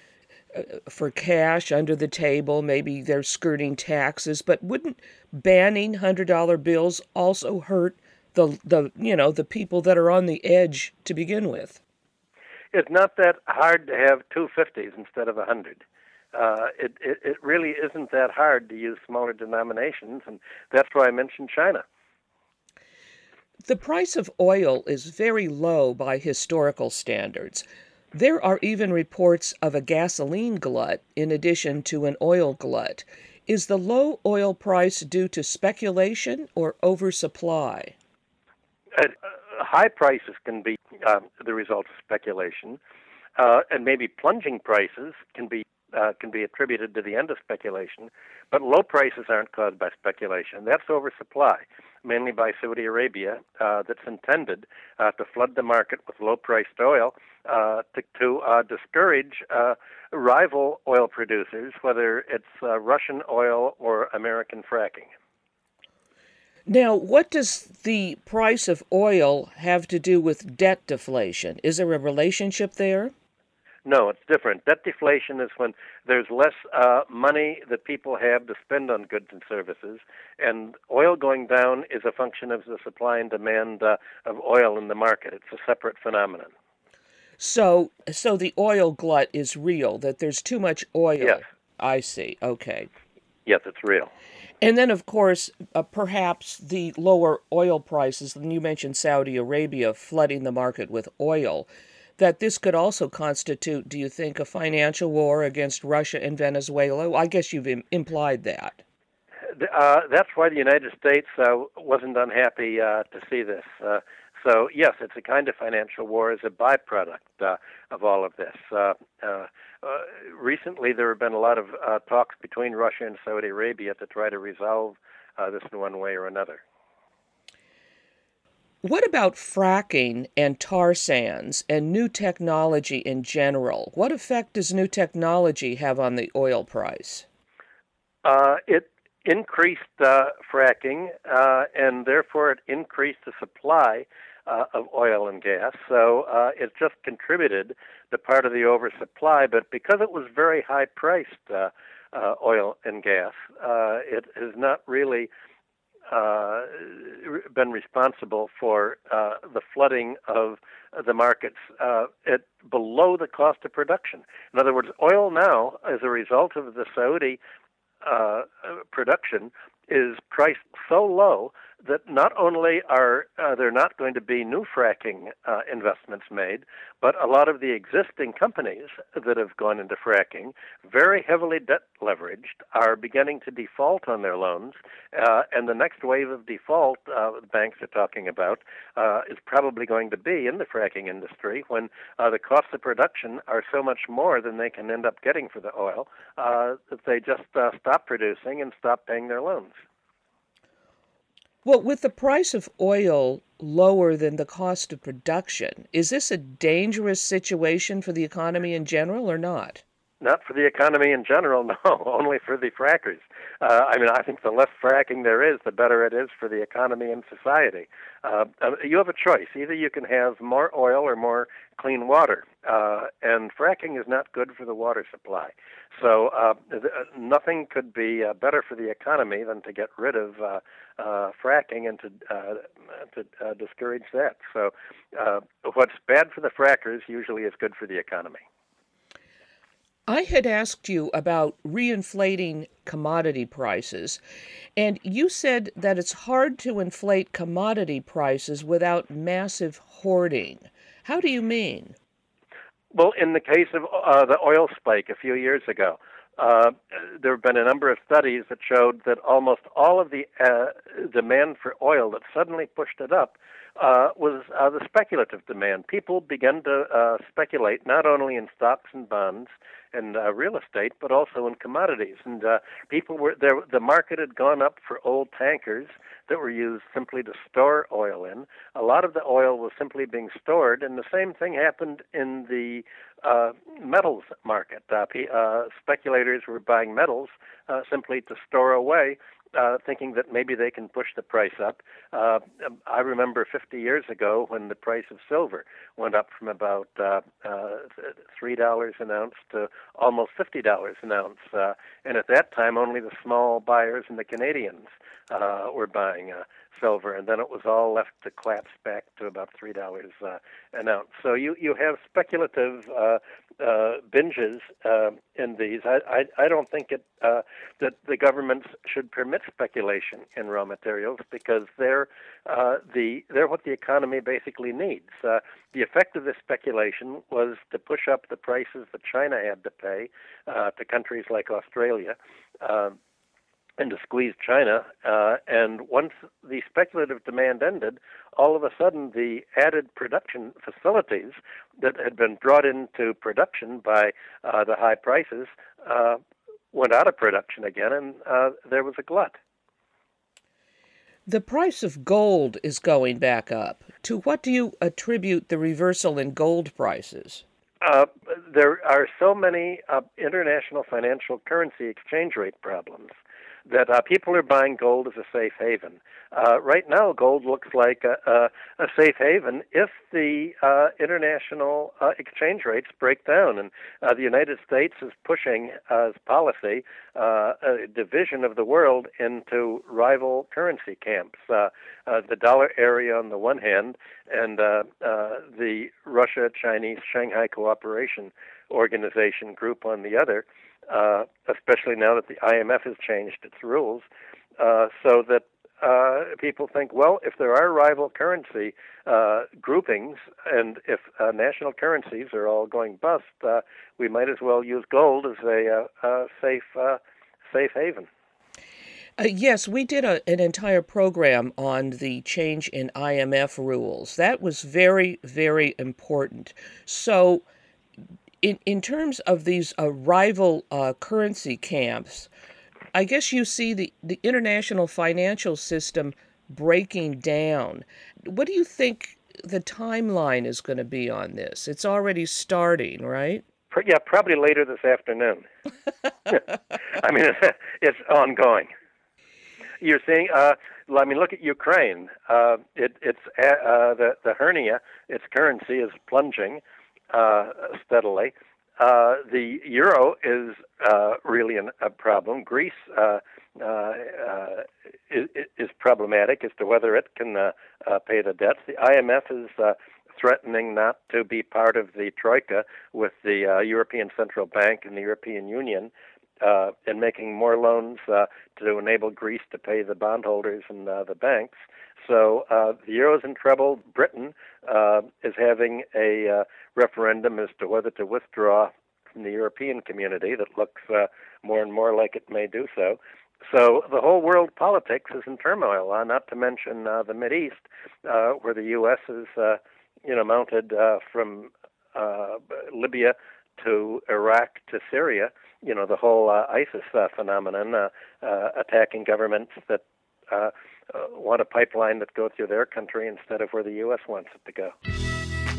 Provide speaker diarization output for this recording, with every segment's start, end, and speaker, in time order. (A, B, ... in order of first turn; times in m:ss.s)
0:00.5-0:11.8 A
0:12.7-0:15.8 B
0:16.3-0:21.8 B
0:23.6-0:37.9 A
0:38.9-0:42.8 B
0:43.4-1:05.1 B
1:06.7-1:13.1 A
1:13.8-1:26.5 B
1:27.4-1:32.9 A
1:33.4-1:34.1 B
1:34.6-1:48.8 A
1:49.5-2:06.6 B
2:08.8-2:17.2 A
2:18.2-2:35.3 B
2:36.1-2:47.4 B
2:48.0-3:19.8 B
3:21.6-3:29.8 A
3:30.2-3:58.4 B
4:00.1-4:04.2 A
4:04.8-4:11.9 A
4:12.9-5:33.0 B
5:33.8-5:46.2 B
5:46.7-5:49.4 B
5:51.3-5:57.4 A
5:57.8-6:03.1 B
6:03.7-6:34.0 B
6:34.6-6:48.1 B
6:49.2-6:57.4 A
6:58.4-7:02.3 A
7:02.9-7:13.4 A
7:13.7-7:15.4 B
7:16.3-7:18.7 B
7:19.8-8:24.7 B